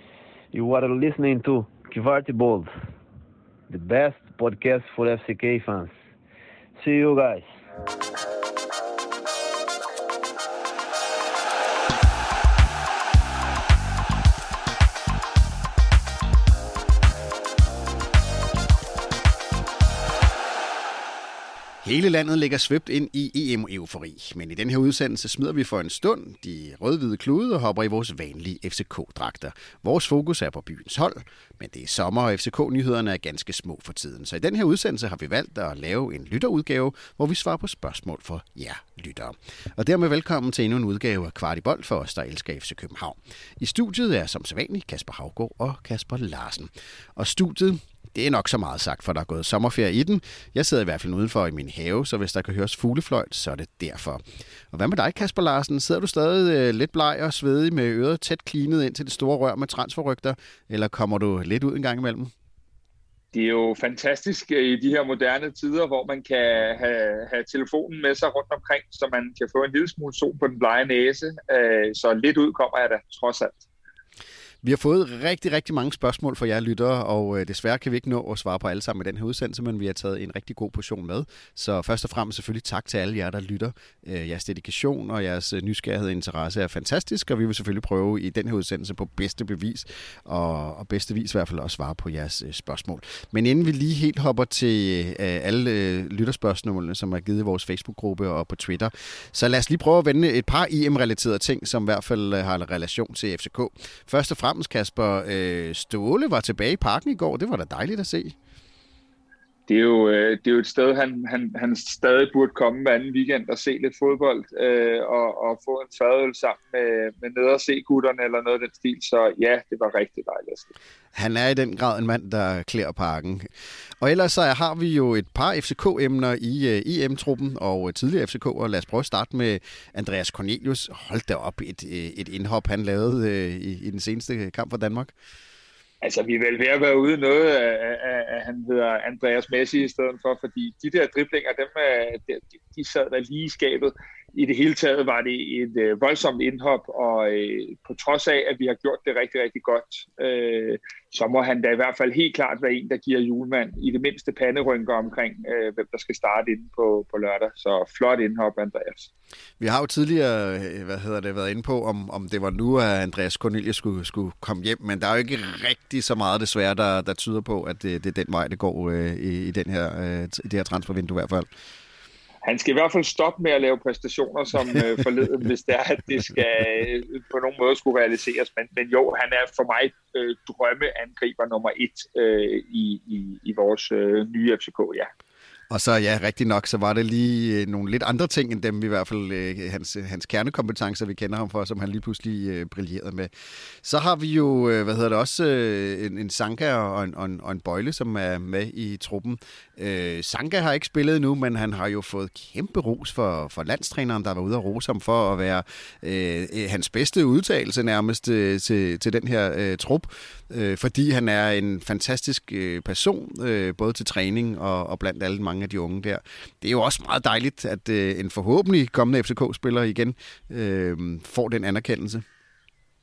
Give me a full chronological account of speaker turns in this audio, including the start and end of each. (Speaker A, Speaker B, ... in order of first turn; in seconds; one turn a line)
Speaker A: 0.5-2.7
Speaker A: 3.7-5.9
Speaker A: 6.8-7.5
Speaker B: 21.8-62.3
Speaker C: 63.3-73.7
Speaker B: 74.6-108.3
Speaker C: 109.7-120.7
Speaker B: 121.1-123.5
Speaker B: 124.0-135.1
Speaker C: 136.0-159.1
Speaker B: 159.6-171.5
Speaker C: 172.4-185.1
Speaker B: 185.7-193.3
Speaker B: 193.8-222.2